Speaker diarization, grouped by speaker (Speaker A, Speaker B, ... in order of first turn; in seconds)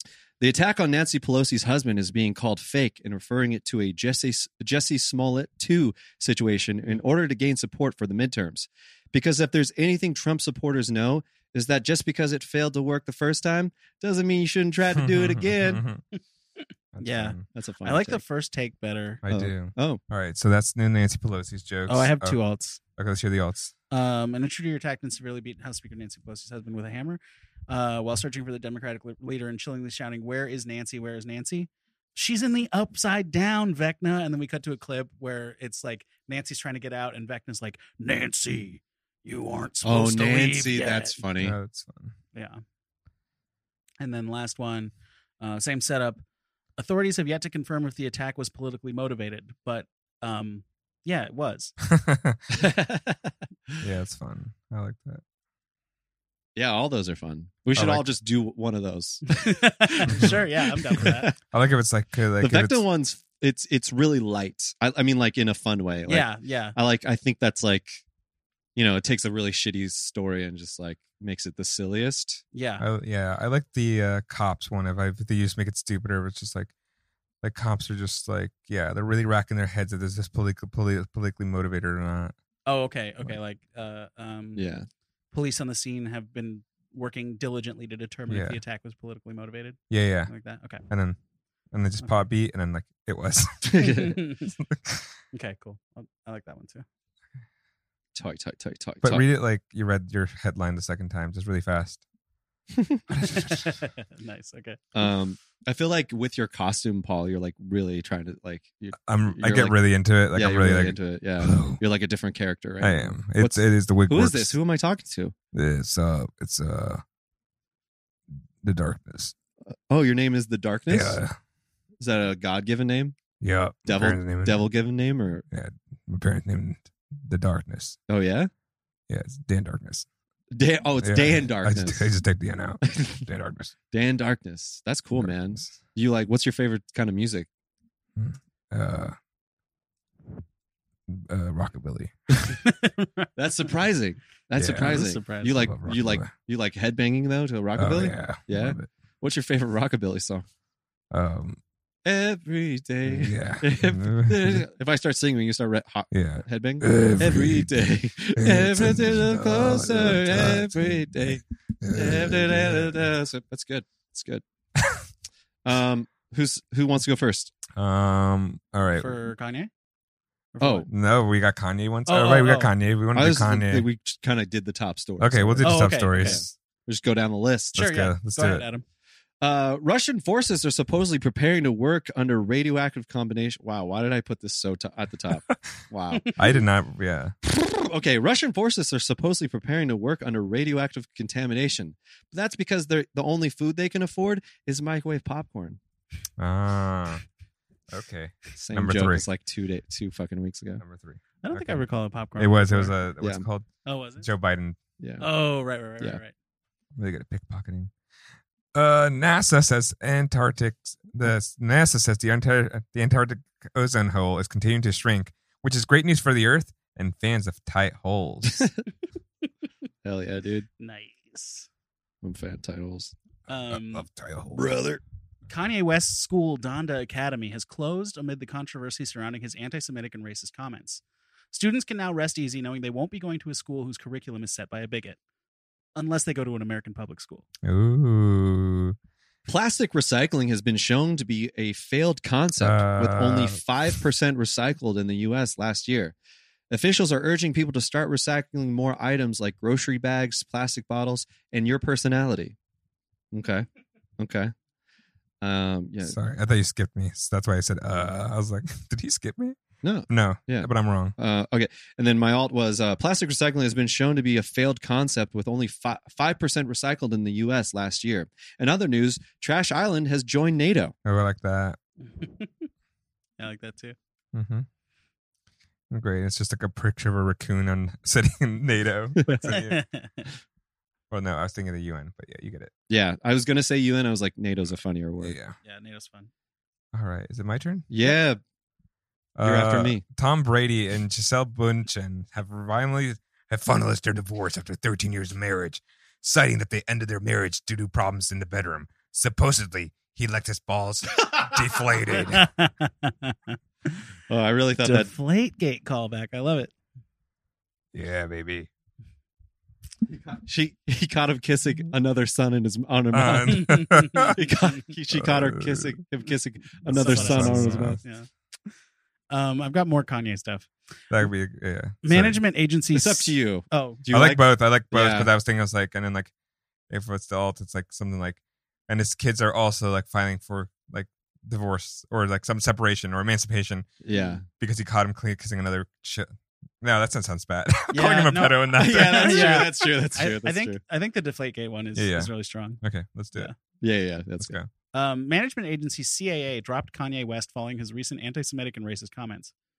Speaker A: 0.4-15.8, 17.5-18.2, 19.3-20.0, 39.8-41.5, 52.5-53.7, 56.5-61.4, 62.4-68.0, 68.8-72.4, 84.5-84.9, 93.6-94.2, 98.1-99.2, 102.7-103.0, 104.9-109.8, 110.3-115.3, 119.9-121.2, 122.0-123.2, 123.8-125.4, 128.1-128.5, 130.5-132.1, 132.8-133.2, 133.9-137.5, 143.3-150.4, 152.0-164.4, 165.6-167.5, 170.6-170.9, 173.1-177.8, 179.4-186.3, 187.4-195.8, 198.6-200.8, 205.0-205.2, 218.5-218.8, 220.0-220.7, 222.2-223.1, 224.5-225.0, 239.5-246.1, 246.7-252.6, 253.3-253.7, 254.2-254.5, 255.4-256.1, 259.8-270.9, 279.2-279.5, 282.9-285.4, 287.9-288.4, 289.4-290.0, 304.3-305.1, 310.1-318.0, 322.9-325.3, 334.0-334.4, 338.7-340.8, 343.8-344.6
Speaker B: 14.9-16.0, 16.9-17.4, 19.2-22.4, 23.0-23.7, 41.4-42.1, 51.8-52.4, 53.8-55.2, 57.7-58.1, 61.0-62.8, 72.8-76.7, 77.4-82.3, 88.3-88.6, 89.9-90.3, 90.9-91.2, 91.7-95.2, 99.0-102.0, 103.1-103.7, 109.0-111.8, 112.8-114.5, 115.5-117.0, 118.6-119.3, 120.9-121.3, 123.4-124.6, 125.5-128.0, 129.1-130.1, 131.0-133.7, 135.2-135.8, 138.2-139.2, 141.1-142.6, 144.6-146.3, 147.8-148.9, 151.1-151.6, 153.0-154.6, 156.1-157.7, 158.4-163.1, 164.8-165.0, 167.7-169.1, 170.9-173.8, 175.2-176.5, 177.7-178.7, 186.3-187.3, 196.4-197.2, 197.9-199.2, 200.8-203.7, 204.2-204.8, 206.9-207.9, 208.7-218.7, 223.5-224.6, 237.6-238.9, 242.6-244.0, 256.0-261.1, 271.0-271.8, 274.3-274.6, 275.9-279.8, 281.1-282.7, 285.2-285.5, 286.9-287.9, 289.4-302.5, 307.9-308.7, 313.1-314.4, 315.1-316.0, 317.0-318.0, 321.1-322.4, 324.1-326.3, 326.9-333.9, 334.5-339.7, 341.9-343.5, 344.4-344.7
Speaker C: 17.0-19.2, 21.9-22.8, 23.9-41.2, 42.3-42.6, 44.0-46.2, 46.8-51.7, 59.3-61.3, 66.1-66.8, 72.5-72.8, 82.7-84.7, 85.3-90.8, 93.8-94.5, 95.3-96.8, 103.2-104.8, 142.5-143.3, 144.7-145.6, 169.0-169.7, 170.5-170.9, 172.1-172.7, 175.6-176.4, 177.8-178.8, 201.4-202.9, 203.8-204.3, 205.2-206.3, 220.8-221.7, 223.5-224.0, 225.5-231.0, 231.5-235.2, 235.9-237.4, 272.1-272.7, 273.4-273.9, 279.3-280.3, 285.6-286.3, 302.3-303.9, 304.8-306.7, 313.5-314.6, 316.9-318.7, 319.3-320.7, 322.0-324.0, 337.9-342.8, 344.9-349.5